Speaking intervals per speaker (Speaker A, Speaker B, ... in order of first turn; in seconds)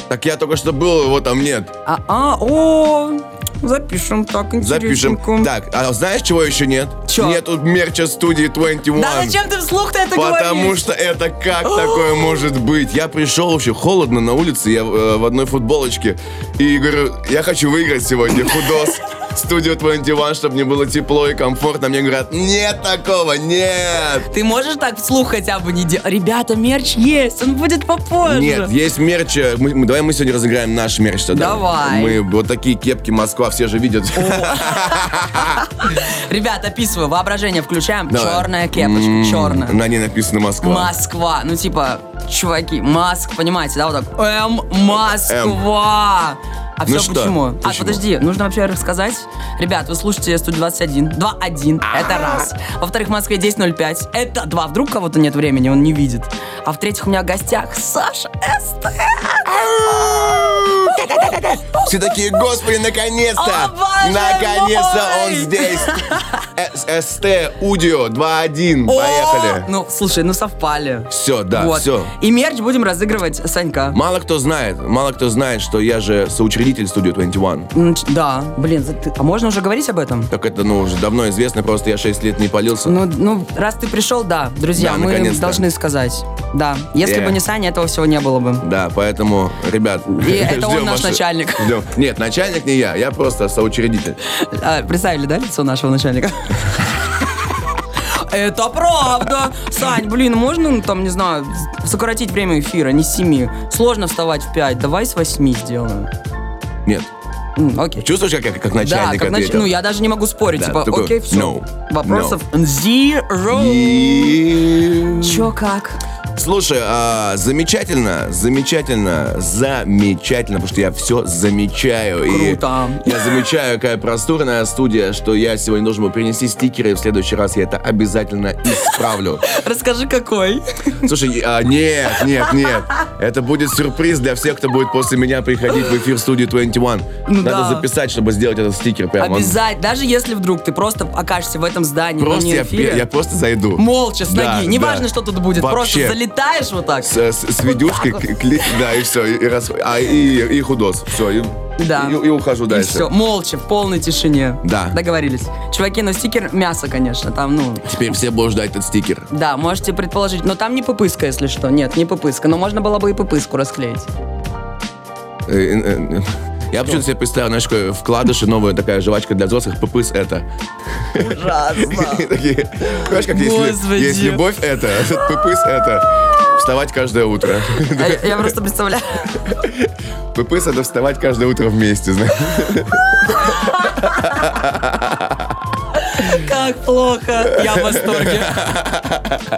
Speaker A: 0.1-1.7, 4.6-9.4, 10.1-24.2, 28.3-35.6, 38.1-40.9, 45.3-45.6, 46.9-48.0, 59.5-65.9, 66.5-69.7, 71.1-72.1, 73.9-77.7, 80.3-83.0, 84.7-85.6, 87.0-87.4, 88.6-94.2, 108.0-109.7, 110.6-112.4, 113.5-115.5, 116.4-129.4, 131.1-139.6, 142.2-146.2, 147.0-153.1, 154.6-154.9, 157.8-159.2, 165.5-170.4, 171.8-178.5, 180.3-183.3, 184.3-184.8, 187.7-189.3
Speaker B: 1.8-5.5, 7.1-7.4, 8.9-10.9, 11.6-12.4, 24.3-28.7, 31.3-32.2, 34.1-39.8, 40.6-59.6, 61.0-62.2, 63.3-66.4, 68.8-74.0, 77.7-80.3, 82.8-88.6, 90.0-91.8, 94.3-96.8, 98.0-106.1, 107.6-108.1, 108.8-114.5, 115.2-116.0, 122.2-123.5, 128.7-131.2, 132.2-132.8, 137.2-137.9, 139.2-143.1, 143.8-148.8, 151.8-157.9, 159.3-164.1, 171.2-172.3, 173.0-174.5, 177.8-179.5, 183.2-184.5, 186.0-188.7